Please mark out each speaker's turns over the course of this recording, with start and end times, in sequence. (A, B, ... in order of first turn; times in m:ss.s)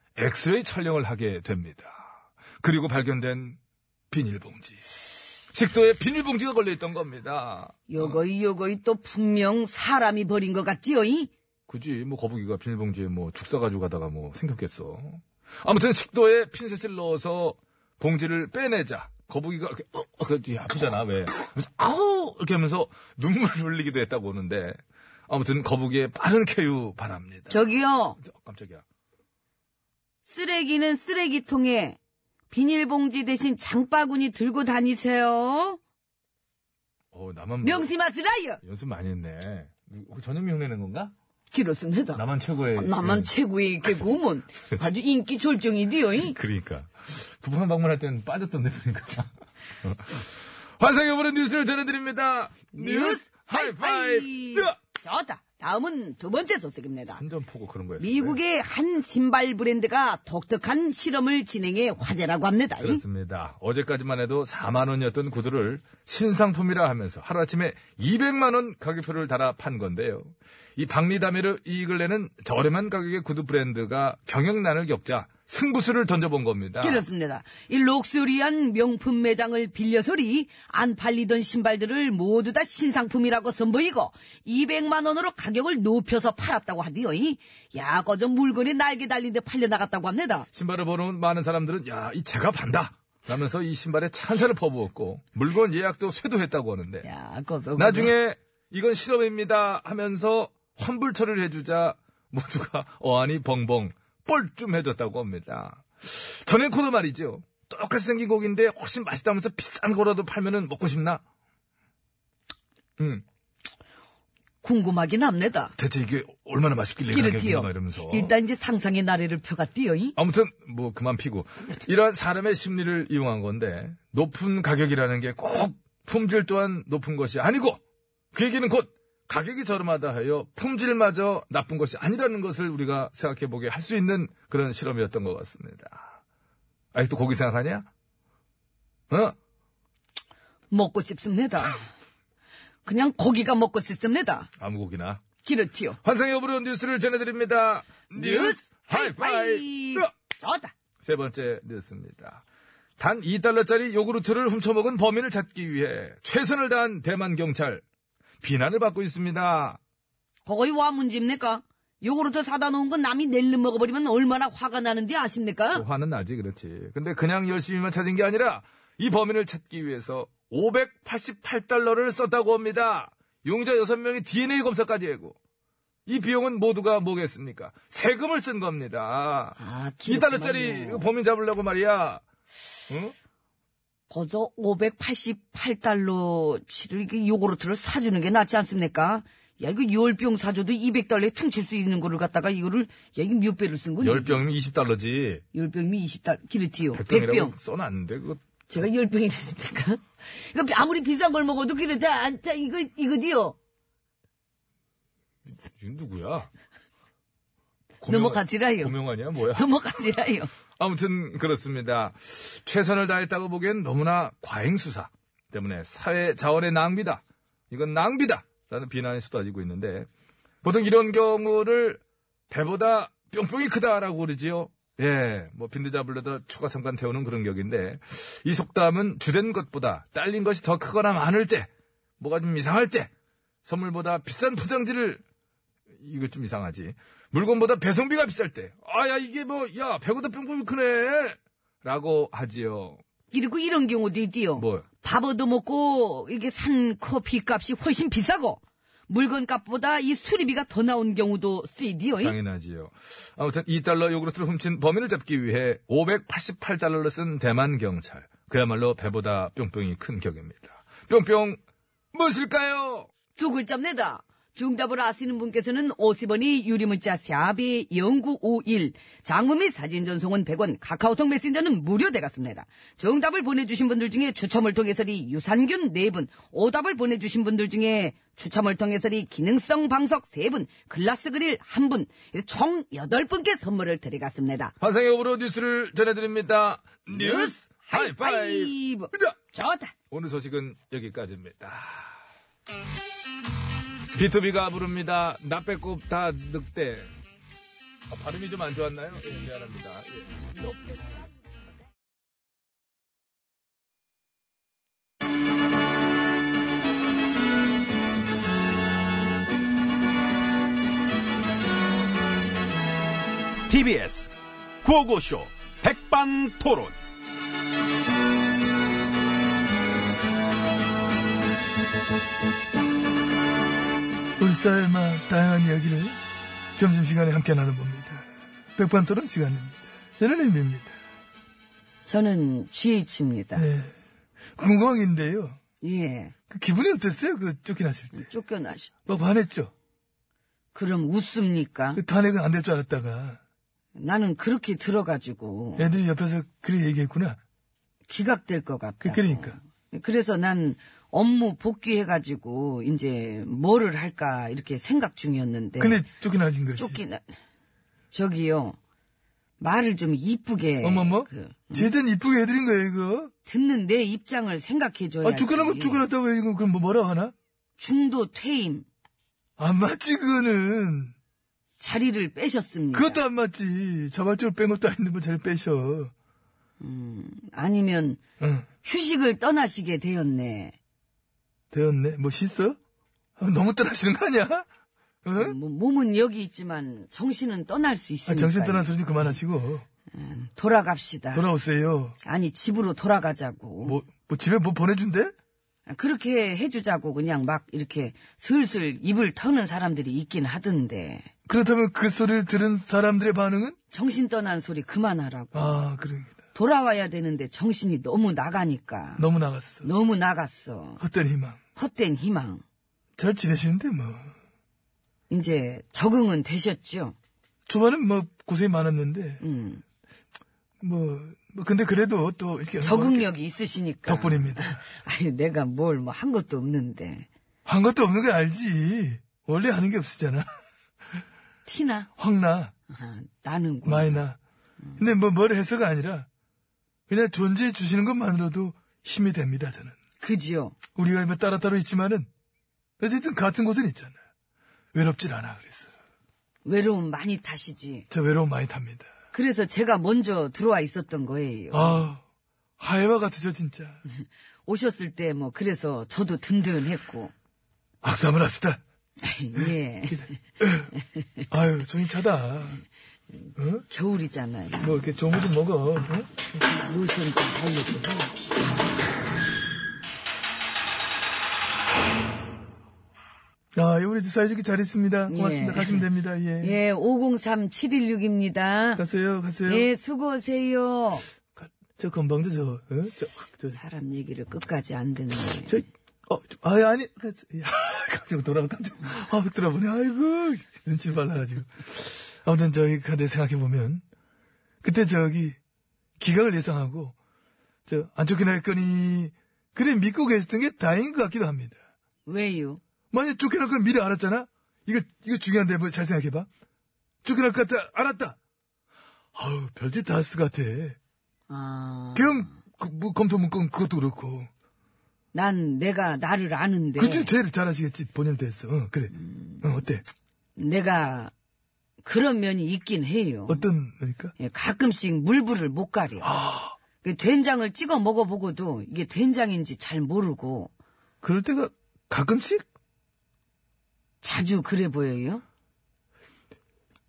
0:00.2-0:02.1 A
0:02.6-0:03.6 A
0:04.1-0:04.8 A
0:05.5-0:08.2 A
0:07.9-0:11.3 B
0:11.7-0:27.6 A
0:27.5-0:28.2 B
0:28.2-0:28.8 A
0:30.2-0:32.0 B
0:32.5-0:35.8 B
0:37.1-0:37.9 A
0:37.6-0:38.6 B
0:38.6-0:41.1 A
0:41.5-0:42.2 B
0:42.1-0:43.3 A
0:42.8-0:46.4 B
0:46.2-0:49.3 A
0:49.8-0:54.7 A
0:52.7-0:57.2 B
0:57.2-0:58.4 A
0:58.0-1:03.0 B
1:02.8-1:17.0 A
1:16.8-1:30.5 B
1:30.5-1:37.1 A
1:37.0-1:38.1 B
1:37.8-1:51.2 A
1:53.0-1:53.2 A
1:54.6-1:55.7 B
1:55.8-1:58.3 A
1:57.1-2:00.2 B
2:00.2-2:07.8 A
2:08.3-2:16.2 A
2:16.9-2:17.9 A
2:19.1-2:19.4 A
2:20.7-2:21.8 B
2:22.8-2:24.5 B
2:24.6-2:25.2 A
2:25.4-2:26.0 B
2:26.0-2:30.1 A
2:28.1-2:30.7 B
2:31.0-2:32.4 A
2:33.0-2:37.8 A
2:38.4-2:39.8 A
2:40.4-2:45.8 B
2:45.7-2:55.4 A
2:56.0-3:02.2 A
2:59.6-3:01.1 B
3:02.9-3:03.1 A
3:04.1-3:14.4 B
3:14.0-3:15.4 A
3:15.5-3:17.5 B
3:16.9-3:18.4 A
3:18.7-3:23.6 B
3:25.6-3:26.5 A
3:28.0-3:29.7 A
3:28.1-3:28.9 B
3:29.5-3:30.5 B
3:30.8-3:40.1 A
3:40.6-3:51.7 A
3:52.2-3:53.1 A
3:53.6-3:55.2 A
3:56.0-4:03.0 A
4:03.3-4:12.4 B
4:04.6-4:04.8 A
4:12.2-4:21.6 A
4:22.1-4:23.1 A
4:23.4-4:44.7 B
4:44.8-4:49.4 A
4:47.1-4:49.9 B
4:50.1-4:52.2 A
4:54.1-4:57.1 A
4:58.1-5:00.7 A
5:13.7-5:17.0 C
5:24.4-5:26.2 D
5:26.8-5:30.9 D
5:32.0-5:33.7 B
5:33.6-5:33.9 D
5:34.6-5:35.6 D
5:35.8-5:36.3 B
5:36.5-5:38.3 D
5:38.1-5:38.9 B
5:39.0-5:39.7 D
5:40.7-5:42.0 B
5:42.0-5:43.4 D
5:44.0-5:45.9 B
5:45.8-5:47.4 D
5:48.1-5:56.0 B
5:49.0-5:49.6 D
5:55.8-5:57.0 D
5:56.8-5:57.2 B
5:58.1-5:58.8 B
5:59.6-6:01.9 B
6:00.8-6:03.3 D
6:03.4-6:06.0 B
6:05.2-6:07.3 D
6:07.8-6:08.8 B
6:09.6-6:11.1 D
6:11.8-6:13.2 B
6:12.9-6:16.1 D
6:16.8-6:18.2 B
6:18.4-6:18.7 D
6:18.8-6:20.8 B
6:21.7-6:22.8 D
6:23.4-6:24.6 D
6:25.2-6:25.6 D
6:25.4-6:28.9 B
6:28.3-6:29.8 D
6:30.1-6:31.4 B
6:31.3-6:32.2 D
6:32.2-6:34.0 B
6:33.8-6:35.3 D
6:35.9-6:41.3 B
6:41.5-6:43.8 D
6:43.9-6:45.8 B
6:45.5-6:46.4 D
6:46.5-6:49.2 B
6:49.2-6:49.9 D
6:49.8-6:51.0 B
6:51.0-6:51.6 D
6:51.8-6:52.6 B
6:53.2-6:54.3 D
6:55.3-6:57.1 B
6:57.7-6:59.4 D
6:59.4-6:59.8 B
7:00.8-7:03.3 D
7:02.8-7:07.3 B
7:04.0-7:04.8 D
7:07.6-7:10.5 D
7:11.6-7:12.1 B
7:12.2-7:12.7 D
7:12.9-7:14.2 B
7:13.8-7:14.4 D
7:15.0-7:16.3 D
7:17.1-7:20.0 D
7:20.2-7:20.7 B
7:21.0-7:22.3 D
7:23.0-7:24.2 D
7:24.9-7:25.9 D
7:26.6-7:28.1 B
7:28.1-7:29.1 D
7:29.3-7:32.0 B
7:31.7-7:32.2 D
7:32.8-7:34.0 D
7:34.0-7:37.3 B
7:38.0-7:38.8 D
7:39.2-7:40.3 B
7:39.6-7:40.9 D
7:41.5-7:42.8 D
7:43.6-7:43.8 D
7:43.9-7:44.9 B
7:44.8-7:46.5 D
7:46.6-7:48.3 B
7:53.7-7:56.8 D
7:55.3-7:56.0 B
7:56.6-7:59.0 B
7:59.0-7:59.9 D
7:59.7-8:01.3 B
8:01.9-8:03.8 D
8:03.7-8:05.8 B
8:05.6-8:14.0 D
8:14.8-8:15.6 D
8:16.2-8:17.1 D
8:17.9-8:21.8 D
8:22.2-8:22.8 B
8:23.1-8:26.5 D
8:27.2-8:28.4 D
8:29.3-8:31.0 D
8:31.5-8:32.5 B
8:32.1-8:34.5 D
8:35.3-8:37.3 B
8:37.0-8:40.0 D
8:39.1-8:39.6 B
8:40.6-8:41.3 B
8:42.0-8:43.6 B
8:43.5-8:44.3 D
8:44.4-8:46.3 B
8:46.2-8:46.8 D
8:47.0-8:50.7 B
8:51.2-8:52.6 D
8:54.2-8:55.4 B